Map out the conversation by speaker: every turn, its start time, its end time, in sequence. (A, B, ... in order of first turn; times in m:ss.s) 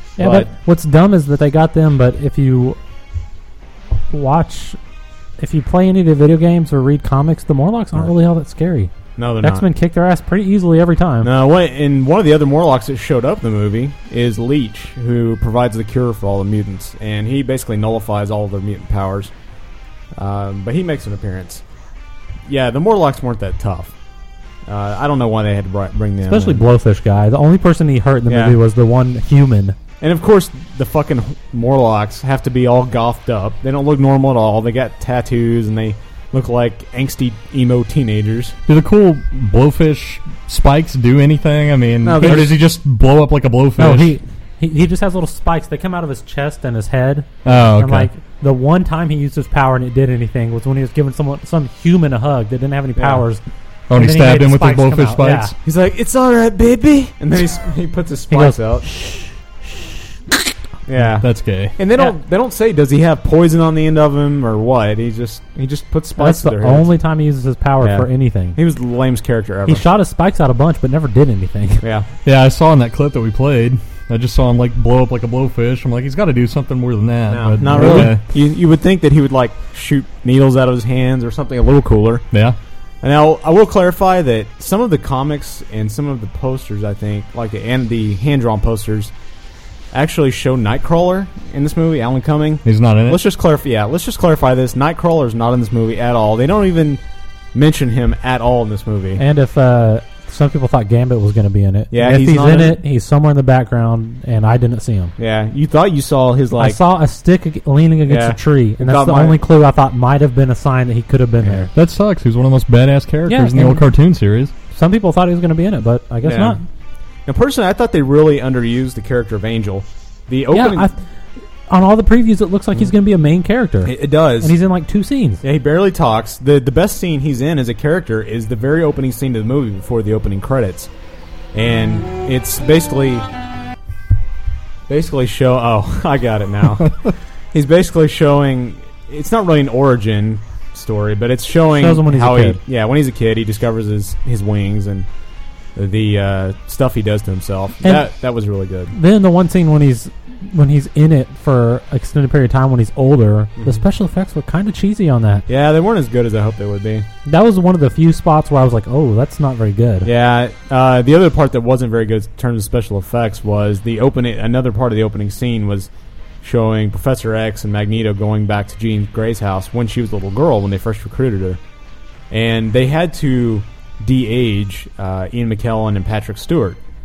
0:00.2-0:00.5 A
0:00.2-0:02.8 B
0:04.1-0:04.8 B
0:05.4-0:11.3 B
0:09.2-0:09.6 A
0:11.2-0:19.3 A
0:20.1-0:21.6 A
0:22.4-0:23.9 A
0:24.6-0:26.6 A
0:26.2-0:29.8 B
0:28.3-0:28.6 A
0:30.0-0:38.6 A
0:38.7-0:44.2 C
0:42.0-0:42.6 A
0:42.2-0:42.5 B
0:43.8-0:55.5 B
0:47.4-0:48.1 C
0:53.0-0:53.2 A
0:53.9-0:55.5 C
0:55.6-0:58.9 A
0:58.3-0:59.9 B
1:00.9-1:06.9 A
1:01.2-1:01.7 C
1:06.2-1:08.6 B
1:07.8-1:09.8 A
1:09.7-1:11.8 B
1:11.8-1:12.1 A
1:12.2-1:18.2 C
1:17.3-1:22.2 A
1:17.7-1:18.1 B
1:23.0-1:29.1 A
1:29.9-1:37.0 A
1:32.6-1:33.2 C
1:37.5-1:39.2 A
1:39.2-1:45.1 B
1:41.9-1:42.8 A
1:45.2-1:46.8 A
1:46.6-1:51.7 B
1:48.0-1:49.4 A
1:51.4-1:51.6 A
1:51.7-1:54.5 C
1:53.3-1:53.8 B
1:54.7-1:56.6 B
1:56.2-1:56.6 A
1:57.2-2:00.9 A
2:00.5-2:01.0 B
2:01.7-2:05.4 B
2:03.8-2:04.5 A
2:05.4-2:10.9 A
2:11.5-2:13.3 A
2:14.9-2:25.1 A
2:21.7-2:22.6 B
2:25.7-2:29.0 A
2:27.8-2:28.1 B
2:28.9-2:35.4 B
2:35.5-2:37.1 A
2:37.2-2:40.1 B
2:40.0-2:45.9 A
2:46.4-2:51.6 A
2:52.3-2:56.8 A